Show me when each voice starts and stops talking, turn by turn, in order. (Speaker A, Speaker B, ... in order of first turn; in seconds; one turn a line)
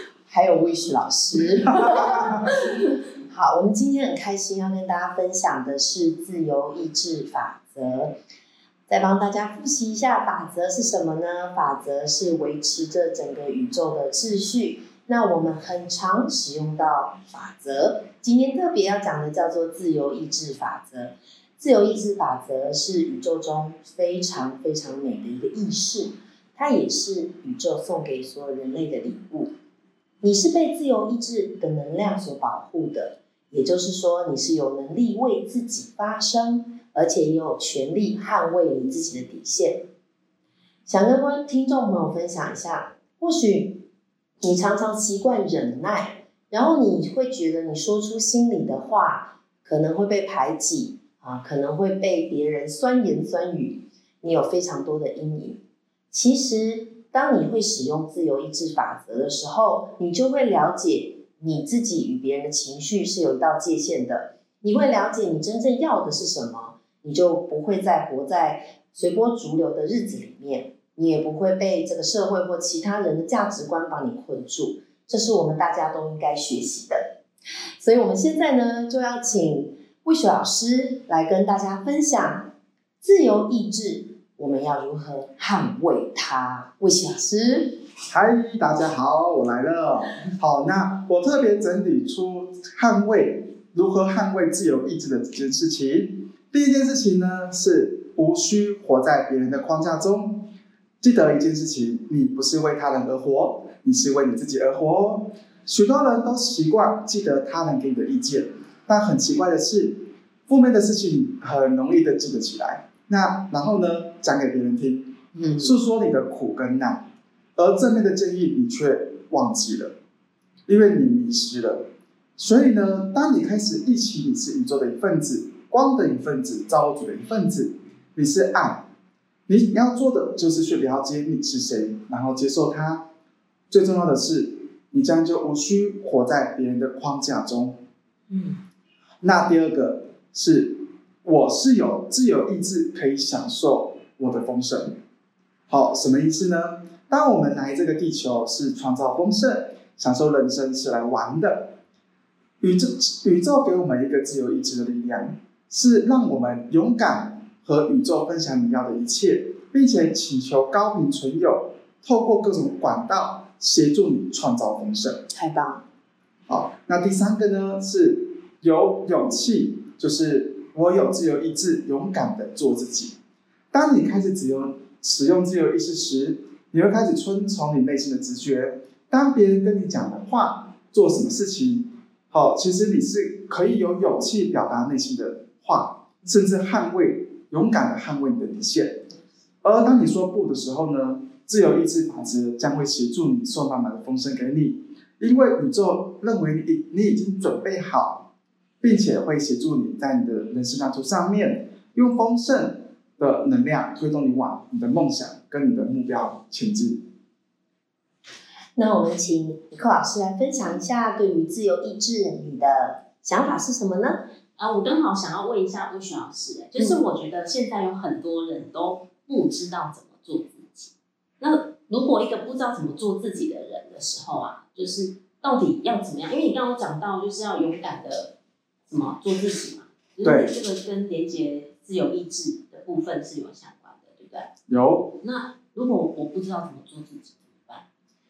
Speaker A: 0.3-2.4
Speaker B: 1.8-2.5
Speaker C: 2.5-2.9
Speaker A: 3.3-8.1
Speaker A: 8.9-29.5
Speaker A: 30.2-39.8
Speaker A: 40.9-43.8
Speaker A: 44.4-55.6
Speaker A: 56.1-77.0
Speaker A: 77.8-82.5
Speaker A: 83.0-87.8
Speaker B: 88.1-100.5
Speaker B: 101.0-117.0
Speaker A: 115.3-115.8
Speaker B: 117.6-119.9
Speaker B: 120.7-121.9
Speaker B: 122.4-128.8
Speaker B: 129.5-133.1
Speaker B: 133.7-137.8
Speaker C: 138.3-138.6
Speaker B: 139.2-145.0
Speaker B: 145.7-151.7
Speaker B: 152.6-165.2
Speaker A: 165.3-165.8
Speaker B: 166.5-173.2
Speaker B: 173.7-189.1
Speaker B: 189.6-198.2
Speaker B: 198.8-207.0
Speaker A: 208.8-214.2
Speaker C: 214.6-228.3
Speaker C: 228.9-234.5
Speaker B: 230.2-230.5
Speaker B: 234.7-235.1
Speaker C: 235.2-237.8